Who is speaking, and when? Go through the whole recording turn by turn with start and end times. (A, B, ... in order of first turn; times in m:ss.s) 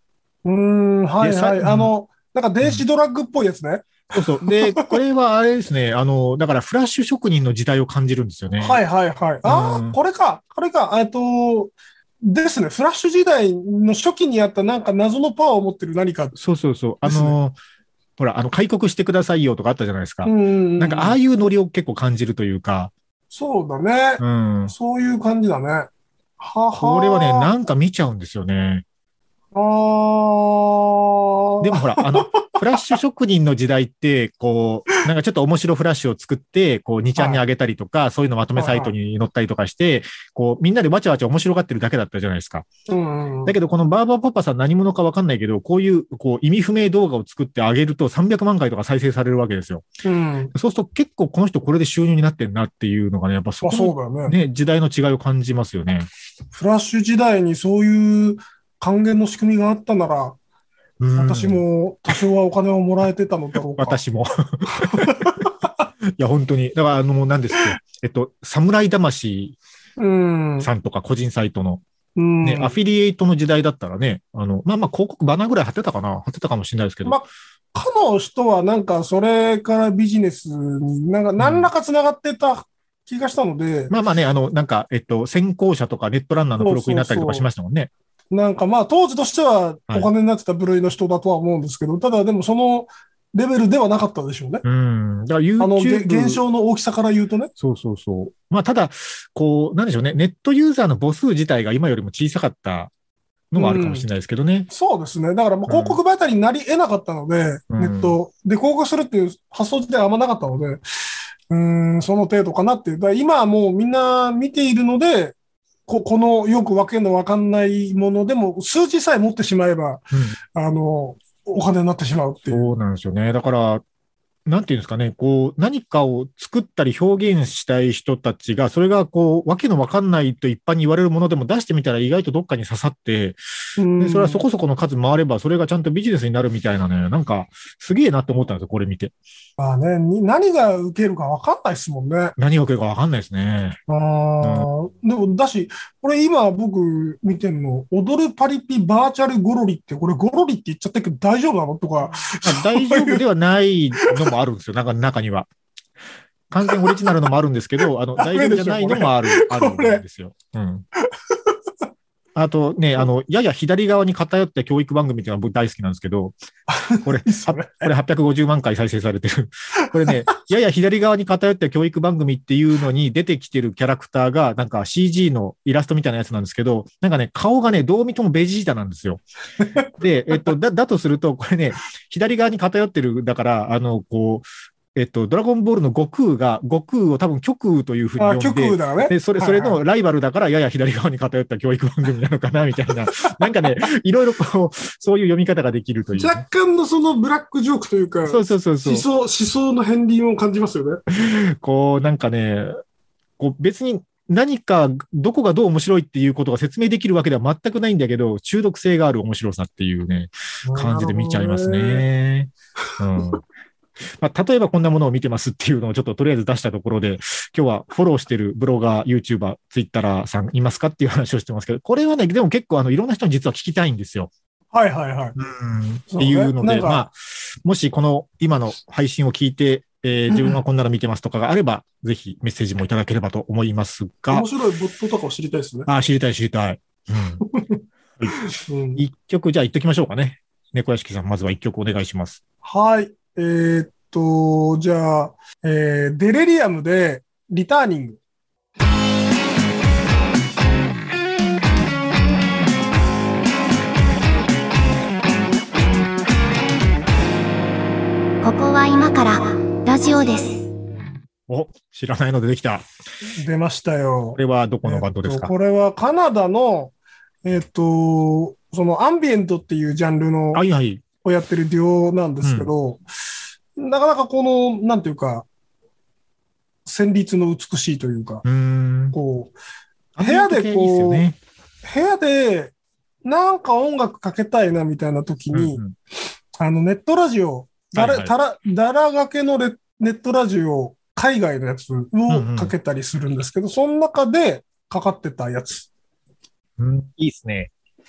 0:00.4-0:05.0 A
0:01.2-0:01.9 B
0:04.1-0:08.8 B
0:08.6-0:16.4 A
0:09.4-0:10.0 B
0:16.4-0:17.6 B
0:17.0-0:17.4 A
0:18.2-0:22.9 B
0:20.2-0:21.2 A
0:23.3-0:27.5 A
0:24.2-0:24.7 B
0:26.8-0:28.8 B
0:29.5-0:32.9 A
0:31.6-0:42.7 B
0:37.2-0:37.4 A
0:38.6-0:38.9 A
0:42.9-0:43.6 A
0:43.5-0:49.8 B
0:50.0-0:50.5 A
0:50.5-0:56.1 B
0:53.6-0:54.4 A
0:56.5-1:00.4 A
1:01.0-1:01.6 B
1:01.2-1:04.0 A
1:03.7-1:05.4 B
1:04.7-1:05.6 A
1:06.2-1:09.6 B
1:10.0-1:10.7 A
1:10.6-1:11.8 B
1:12.2-1:12.8 A
1:12.4-1:17.2 B
1:17.0-1:23.9 A
1:21.4-1:21.7 B
1:23.9-1:27.9 B
1:26.6-1:27.5 A
1:28.3-1:34.6 A
1:34.6-1:36.4 B
1:35.6-1:37.5 A
1:37.6-1:42.9 B
1:43.5-1:44.7 B
1:43.6-1:44.1 A
1:44.7-1:50.8 A
1:45.7-1:46.0 B
1:47.7-1:48.2 B
1:51.5-1:55.4 A
1:55.9-2:02.7 A
2:00.1-2:00.4 B
2:02.5-2:03.8 B
2:04.5-2:13.4 B
2:13.8-2:14.4 A
2:14.0-2:19.1 B
2:19.6-2:22.4 A
2:22.4-2:23.8 B
2:23.9-2:33.2 A
2:24.4-2:24.7 B
2:32.1-2:35.5 B
2:34.0-2:34.3 A
2:36.5-2:40.9 B
2:36.6-2:37.0 A
2:38.2-2:40.0 A
2:41.1-2:41.6 A
2:42.4-2:46.4 B
2:46.7-2:47.9 A
2:47.0-2:59.2 B
2:50.0-2:50.3 A
2:59.6-2:59.9 A
3:00.0-3:16.4 B
3:08.2-3:09.8 A
3:16.2-3:21.0 A
3:18.3-3:19.1 B
3:21.1-3:22.7 B
3:23.4-3:33.4 B
3:30.6-3:32.0 A
3:34.0-3:44.3 B
3:44.7-3:45.4 A
3:45.4-3:54.5 B
3:46.1-3:47.1 A
3:50.3-3:50.6 A
3:54.3-3:55.9 A
3:55.9-3:57.4 B
3:57.4-3:59.0 A
3:59.0-4:02.4 B
4:02.6-4:08.2 A
4:18.4-4:20.7 C
4:21.5-4:22.9 B
4:23.3-4:30.6 A
4:24.4-4:25.5 B
4:30.5-4:31.0 B
4:31.2-4:33.0 A
4:32.4-4:32.7 B
4:33.8-4:35.5 A
4:36.9-4:38.4 A
4:38.4-4:39.2 B
4:39.1-4:39.5 A
4:40.2-4:41.4 B
4:40.2-4:41.3 A
4:41.8-4:42.7 A
4:43.2-4:45.8 A
4:45.5-4:45.9 B
4:46.6-4:55.9 A
4:47.9-4:48.3 B
4:52.3-4:52.8 B
4:56.8-4:57.7 B